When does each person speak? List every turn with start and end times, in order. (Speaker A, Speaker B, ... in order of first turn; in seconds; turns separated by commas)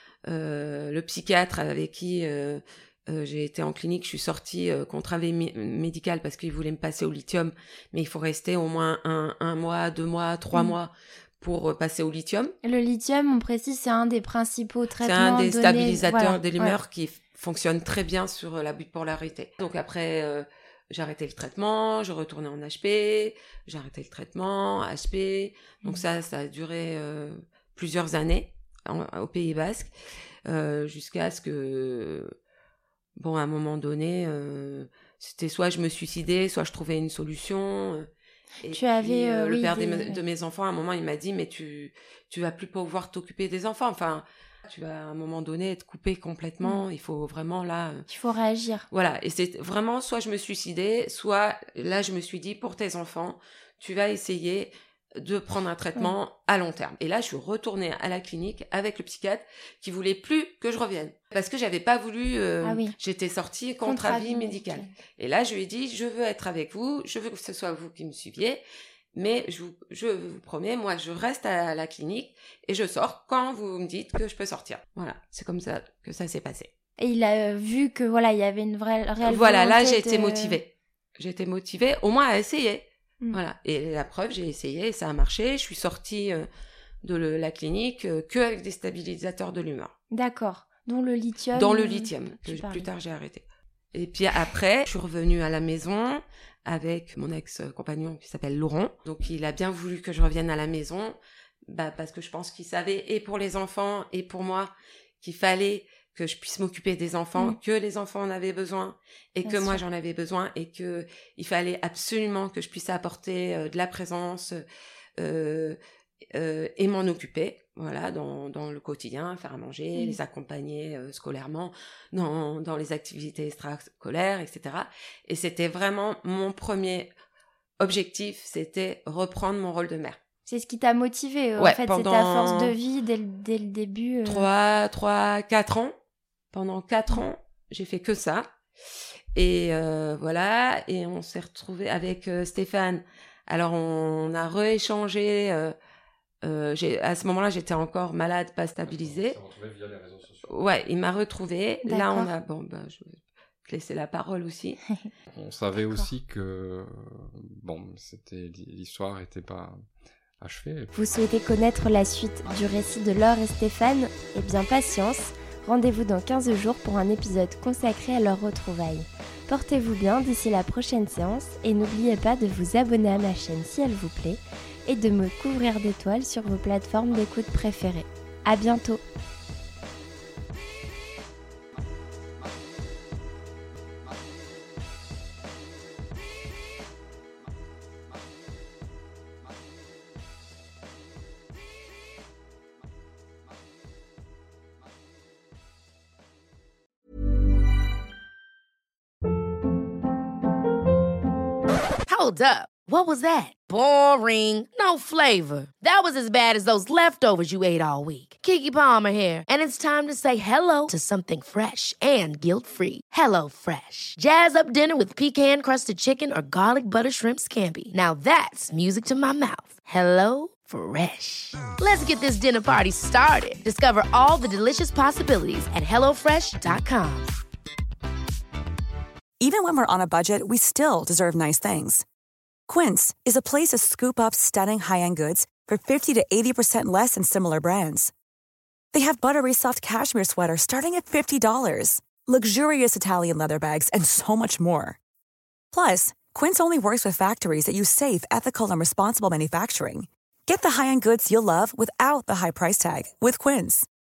Speaker A: 0.2-12.5, Speaker B: 12.6-16.8, Speaker A: 15.0-29.9, Speaker A: 30.4-32.3, Speaker A: 33.1-38.1, Speaker A: 38.6-48.0, Speaker B: 38.7-40.2, Speaker B: 48.1-48.9, Speaker A: 48.9-68.6, Speaker B: 62.6-62.9, Speaker B: 63.8-64.9, Speaker A: 69.1-76.7, Speaker B: 77.0-80.6, Speaker A: 79.2-86.5, Speaker A: 87.0-89.9, Speaker B: 90.1-92.9, Speaker A: 91.5-101.2, Speaker A: 101.7-114.6, Speaker B: 109.4-109.8, Speaker A: 115.2-115.8, Speaker A: 116.3-127.1, Speaker A: 127.8-130.2, Speaker B: 130.5-134.4, Speaker A: 131.6-132.8, Speaker A: 134.2-135.9, Speaker A: 136.5-138.5, Speaker A: 139.3-145.7, Speaker A: 146.4-149.4, Speaker C: 148.8-150.5, Speaker A: 150.5-154.8, Speaker B: 151.8-152.3, Speaker C: 155.3-159.8, Speaker B: 155.8-156.1, Speaker C: 160.4-160.9, Speaker B: 160.9-179.0, Speaker D: 202.1-227.3, Speaker E: 229.4-232.0, Speaker E: 232.7-238.1, Speaker E: 238.9-245.0, Speaker E: 245.7-253.9